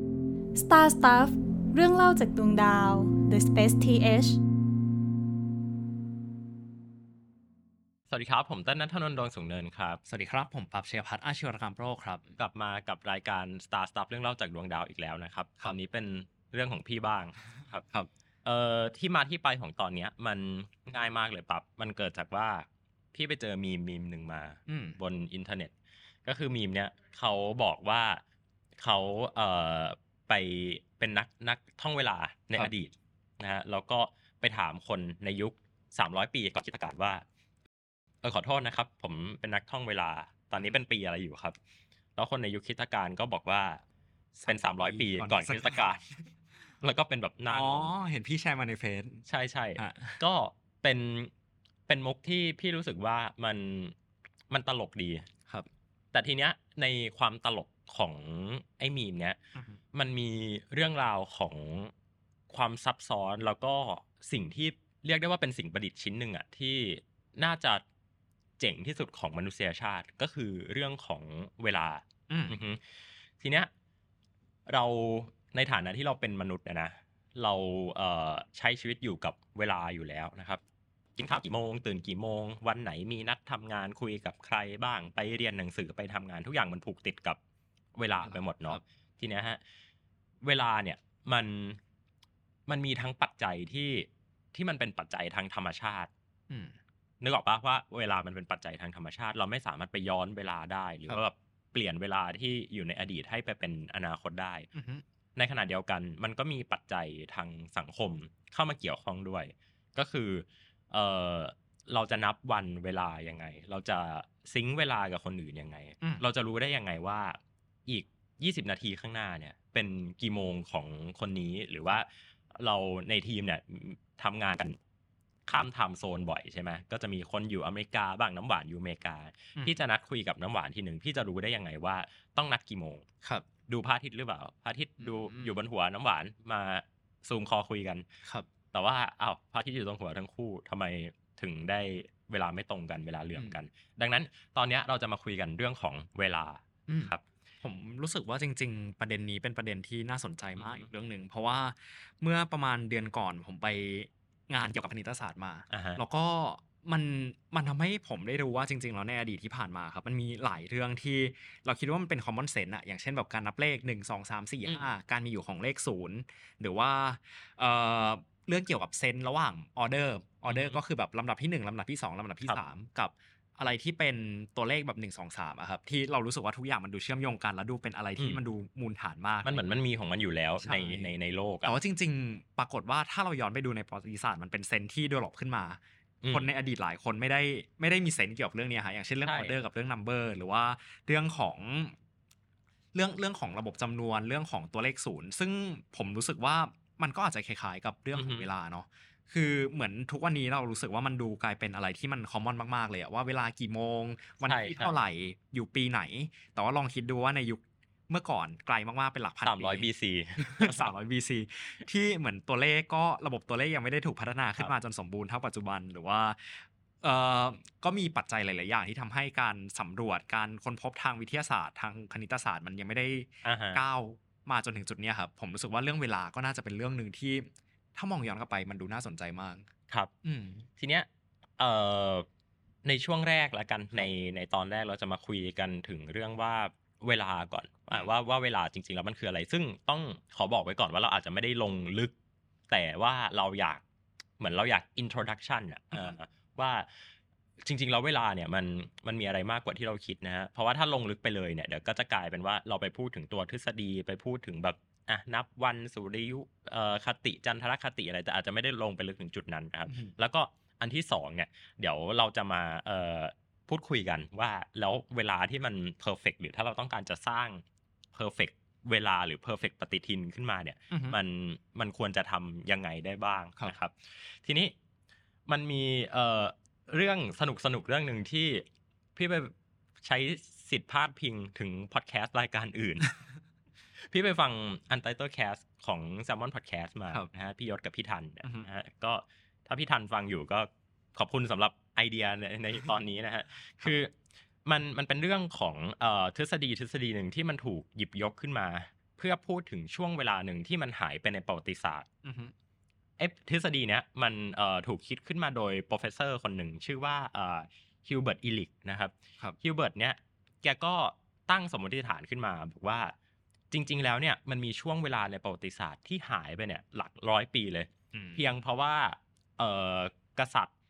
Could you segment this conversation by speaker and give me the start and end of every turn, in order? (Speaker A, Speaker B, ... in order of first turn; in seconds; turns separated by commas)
Speaker A: 0.5-4.4, Speaker B: 8.1-10.0, Speaker C: 10.1-12.3, Speaker B: 12.4-17.9, Speaker B: 18.4-25.7, Speaker C: 24.7-25.0, Speaker B: 26.2-28.2, Speaker B: 28.8-37.2, Speaker B: 38.2-41.5, Speaker B: 42.1-43.8, Speaker C: 44.3-45.9, Speaker B: 44.5-46.0, Speaker B: 46.8-47.9, Speaker C: 47.5-49.2, Speaker B: 49.3-51.3, Speaker C: 49.8-50.2, Speaker B: 51.9-53.9, Speaker B: 54.5-55.3, Speaker B: 56.1-59.4, Speaker B: 59.9-61.9, Speaker B: 62.5-67.8, Speaker B: 68.6-72.8, Speaker C: 72.3-72.6, Speaker B: 73.4-73.7, Speaker B: 74.7-80.6, Speaker B: 81.2-87.4, Speaker B: 88.0-89.6, Speaker C: 88.2-88.8, Speaker B: 90.4-91.8, Speaker B: 92.7-96.1, Speaker C: 96.5-96.8, Speaker B: 97.2-104.7, Speaker C: 104.7-105.0, Speaker B: 105.3-124.8, Speaker B: 125.5-133.1, Speaker B: 133.7-138.0, Speaker C: 135.0-135.5, Speaker B: 138.7-147.2, Speaker C: 146.9-179.6, Speaker B: 150.6-150.8, Speaker B: 155.7-156.0, Speaker B: 170.5-170.8, Speaker B: 179.4-181.7, Speaker C: 180.6-181.1, Speaker C: 181.6-185.8, Speaker B: 186.2-186.5, Speaker C: 186.3-191.9, Speaker B: 189.2-189.5, Speaker C: 192.9-209.9, Speaker B: 198.1-198.5, Speaker B: 204.4-205.0, Speaker B: 209.4-210.9, Speaker C: 210.4-229.7, Speaker B: 223.4-223.8, Speaker C: 230.2-230.6, Speaker B: 230.8-231.1, Speaker B: 231.6-232.2, Speaker B: 232.8-242.1, Speaker B: 242.7-243.8, Speaker B: 244.4-246.9, Speaker B: 247.6-267.6, Speaker B: 268.1-274.7, Speaker C: 270.9-271.2, Speaker B: 275.5-283.2, Speaker B: 284.0-294.1, Speaker B: 294.6-302.1, Speaker C: 302.2-302.5, Speaker B: 303.2-313.1, Speaker B: 313.7-320.7, Speaker C: 318.1-318.4